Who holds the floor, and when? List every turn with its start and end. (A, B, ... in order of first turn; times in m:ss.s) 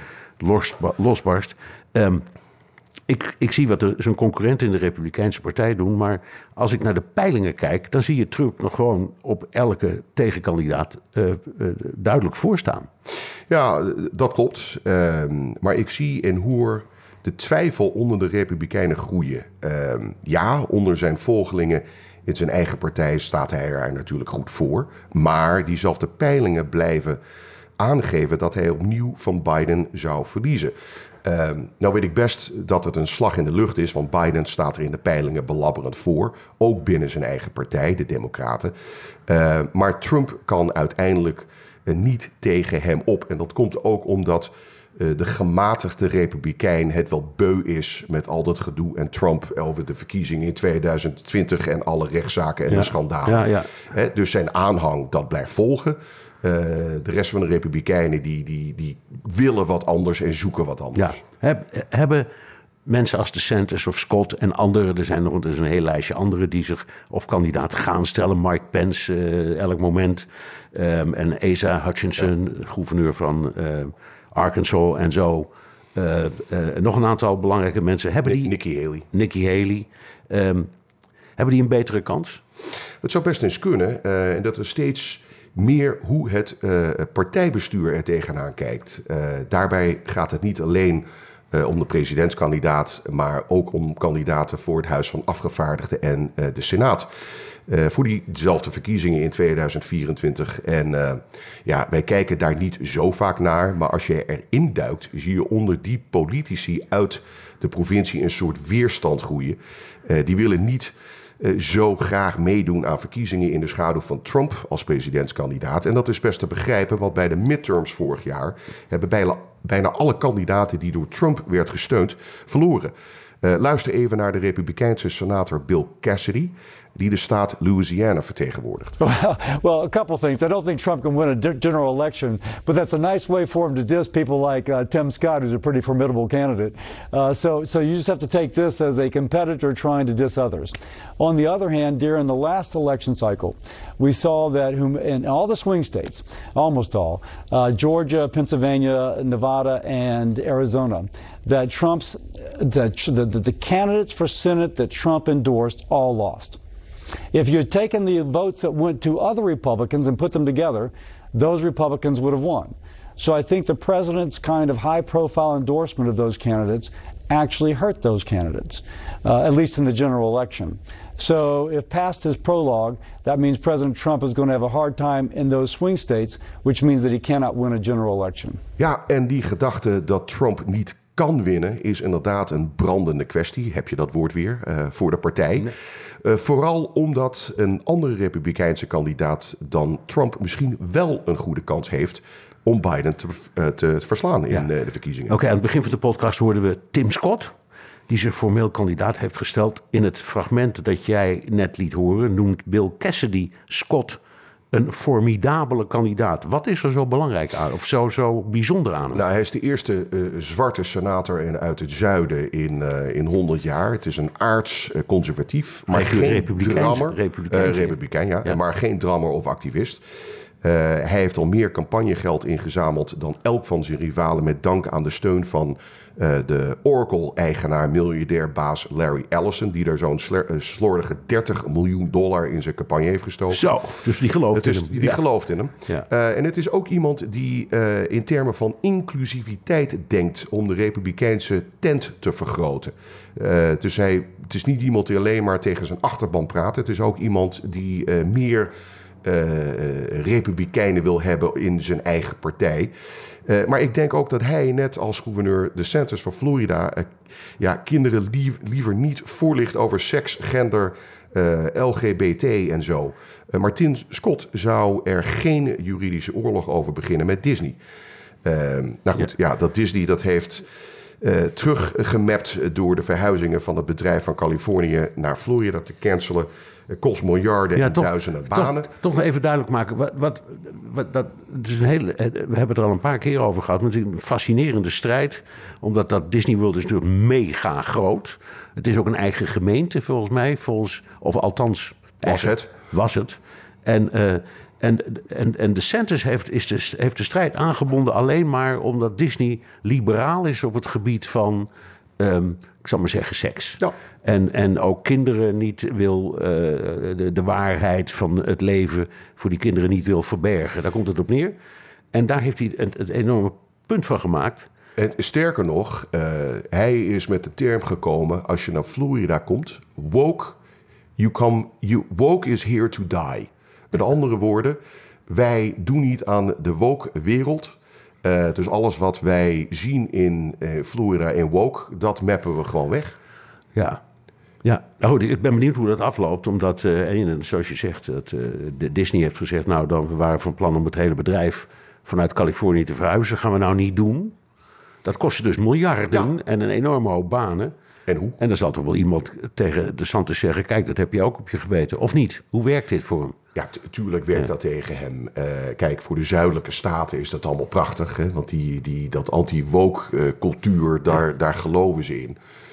0:00.4-0:02.2 A
0:03.1-0:12.9 A
0:13.5-0:27.2 B
0:27.8-0:38.7 B
0:39.3-1:01.2 B
0:52.7-0:53.8 A
1:01.0-1:02.3 A
1:02.9-1:18.6 A
1:18.3-1:19.1 B
1:19.1-1:20.7 A
1:21.4-1:22.4 A
1:23.0-1:37.1 B
1:37.7-2:02.9 B
2:03.4-2:09.0 B
2:09.0-2:36.6 C
2:37.3-2:58.6 C
2:58.8-3:15.4 B
3:15.3-3:17.6 A
3:18.1-3:24.2 A
3:24.7-3:29.2 A
3:29.1-3:40.0 B
3:35.9-3:38.6 A
3:40.6-3:53.7 B
3:53.5-3:55.2 A
3:54.5-4:08.7 B
4:09.2-4:12.9 B
4:13.5-4:27.8 B
4:28.4-4:30.7 B
4:31.2-4:38.9 B
4:37.8-5:11.6 A
4:52.2-4:52.7 B
5:12.1-5:14.7 A
5:15.0-5:20.6 B
5:21.2-5:33.2 B
5:33.8-5:34.0 A
5:34.6-5:44.4 A
5:45.0-5:47.7 A
5:48.1-5:48.4 B
5:48.4-5:53.4 A
5:53.6-6:02.4 B